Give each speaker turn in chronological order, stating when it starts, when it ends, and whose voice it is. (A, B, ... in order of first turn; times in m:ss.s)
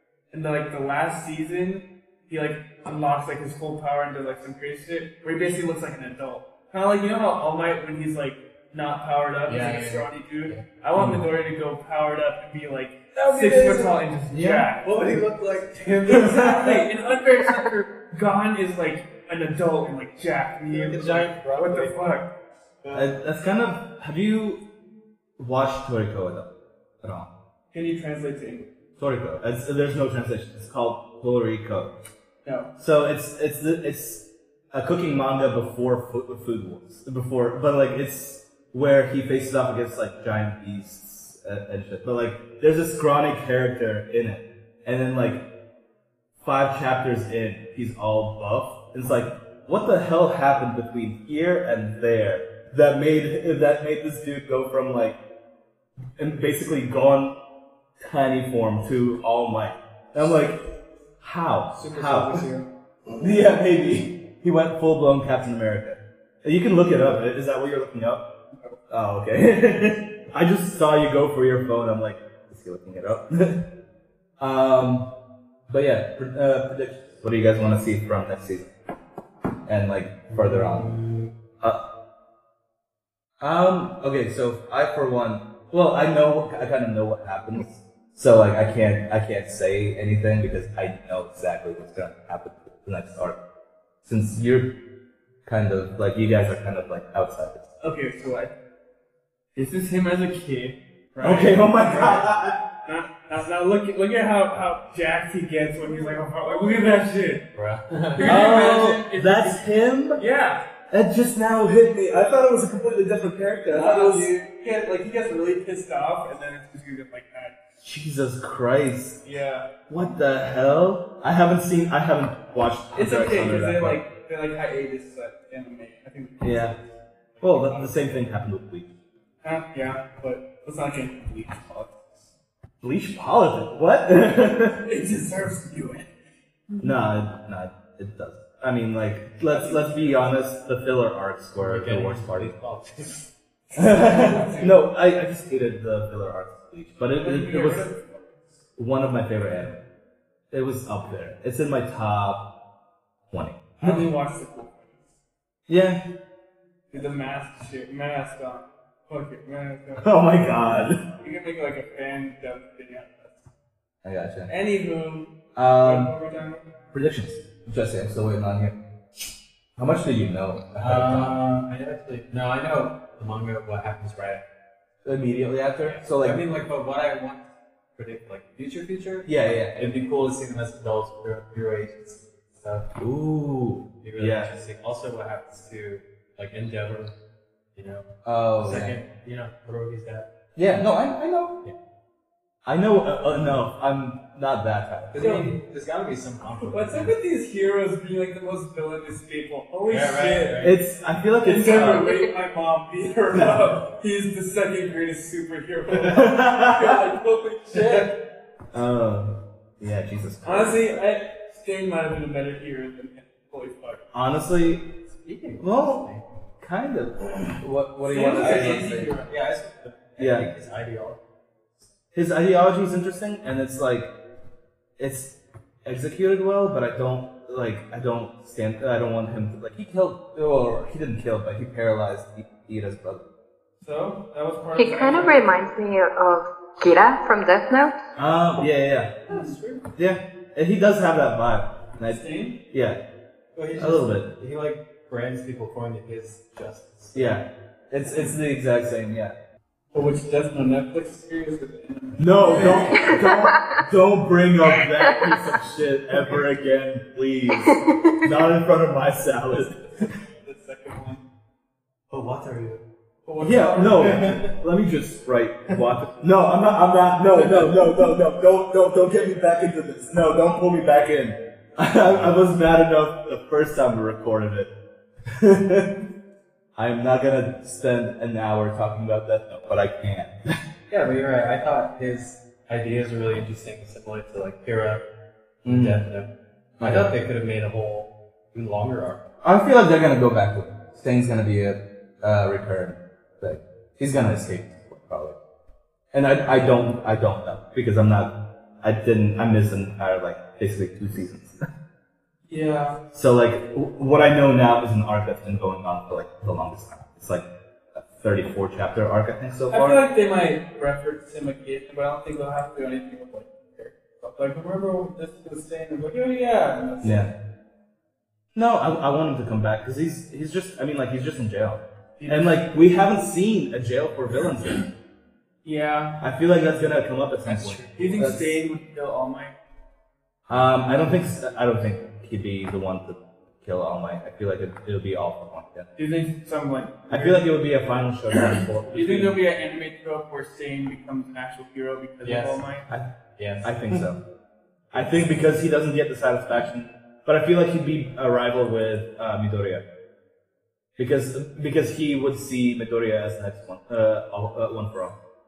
0:00.3-0:15.0 A
0:09.4-0:11.2 B
0:13.1-0:16.8 B
0:16.1-0:22.3 A
0:20.7-0:22.1 B
0:22.8-0:23.2 B
0:22.9-0:24.6 C
0:25.4-0:26.5 C
0:27.0-0:27.3 C
0:27.7-0:28.7 A
0:29.0-0:31.9 C
0:32.4-0:32.7 A
0:32.8-0:45.5 C
0:46.4-0:55.2 C
0:56.2-0:57.4 C
0:58.0-1:00.7 C
1:01.2-1:02.4 C
1:01.7-1:02.7 A
1:03.2-1:08.2 C
1:08.9-1:13.6 C
1:14.4-1:15.1 C
1:15.7-1:18.7 C
1:19.6-1:21.0 C
1:20.3-1:21.3 B
1:21.6-1:21.9 C
1:23.4-1:33.4 C
1:34.0-1:34.8 C
1:35.4-1:37.7 C
1:37.8-1:38.5 A
1:39.6-1:47.4 A
1:41.2-1:42.6 C
1:47.5-1:48.5 B
1:48.1-1:50.6 A
1:48.2-1:50.2 C
1:50.9-1:54.3 C
1:53.7-1:57.6 A
1:57.8-1:59.2 C
1:59.2-1:59.7 A
1:59.9-2:04.0 C
2:02.9-2:06.8 A
2:06.4-2:06.8 C
2:07.4-2:08.1 A
2:07.4-2:08.9 C
2:09.4-2:12.3 A
2:12.8-2:14.8 C
2:14.8-2:16.1 A
2:16.8-2:22.6 C
2:19.4-2:20.2 A
2:21.6-2:23.3 B
2:23.7-2:24.8 A
2:23.8-2:27.9 C
2:27.1-2:28.5 A
2:28.8-2:29.8 C
2:30.5-2:32.5 C
2:33.3-2:34.1 C
2:33.8-2:35.1 A
2:35.7-2:36.0 C
2:36.9-2:43.4 A
2:40.0-2:41.0 C
2:44.0-2:44.5 C
2:44.5-2:46.7 A
2:45.5-2:46.1 C
2:46.9-2:48.8 C
2:49.8-2:51.4 C
2:50.8-2:54.4 B
2:55.0-2:56.4 C
2:56.1-3:02.9 B
2:59.2-3:00.0 C
3:03.0-3:04.5 C
3:04.0-3:07.2 B
3:07.7-3:08.1 B
3:08.2-3:09.0 C
3:08.6-3:10.3 B
3:10.6-3:11.6 C
3:12.6-3:15.2 C
3:15.1-3:17.2 B
3:15.2-3:15.6 A
3:16.6-3:20.7 A
3:19.9-3:20.8 B
3:20.6-3:22.1 C
3:21.4-3:28.2 A
3:23.4-3:23.6 C
3:26.1-3:27.0 C
3:27.7-3:28.1 B
3:28.7-3:31.0 C
3:30.4-3:34.0 A
3:34.1-3:34.9 C
3:35.1-3:36.2 B
3:35.6-3:39.2 C
3:38.0-3:39.3 A
3:38.3-3:41.2 B
3:40.2-3:40.5 C
3:42.1-3:44.1 C
3:45.0-3:53.2 C
3:53.8-3:55.7 A
3:54.8-3:58.0 D
3:58.2-3:59.2 C
3:59.3-3:59.9 B
3:59.9-4:03.0 C
4:02.0-4:02.6 A
4:03.5-4:07.3 B
4:03.8-4:04.3 C
4:07.1-4:09.3 C
4:09.9-4:13.2 A
4:12.2-4:19.8 C
4:12.5-4:12.9 B
4:12.9-4:13.6 D
4:19.7-4:21.2 A
4:22.1-4:22.8 B
4:23.2-4:24.3 A
4:23.4-4:34.7 C
4:23.9-4:24.5 B
4:35.4-4:36.0 C
4:36.8-4:40.3 C
4:40.9-4:45.0 B
4:45.6-4:46.3 B
4:45.6-4:46.1 C
4:46.8-4:47.2 C
4:46.8-4:49.3 B
4:49.4-4:55.4 C
4:56.1-5:01.6 C
5:02.5-5:03.0 A
5:03.1-5:10.0 C
5:09.7-5:17.3 A
5:17.0-5:17.3 C
5:18.5-5:24.9 C
5:22.2-5:22.7 A
5:25.6-5:26.4 A
5:26.2-5:28.6 C
5:27.4-5:28.2 B
5:28.0-5:29.5 A
5:30.5-5:35.9 C
5:36.0-5:37.5 A
5:37.1-5:39.4 C
5:38.9-5:42.9 A
5:42.2-5:42.6 B
5:42.9-5:44.2 C
5:43.4-5:44.0 B
5:44.9-5:49.8 C
5:51.0-5:55.2 C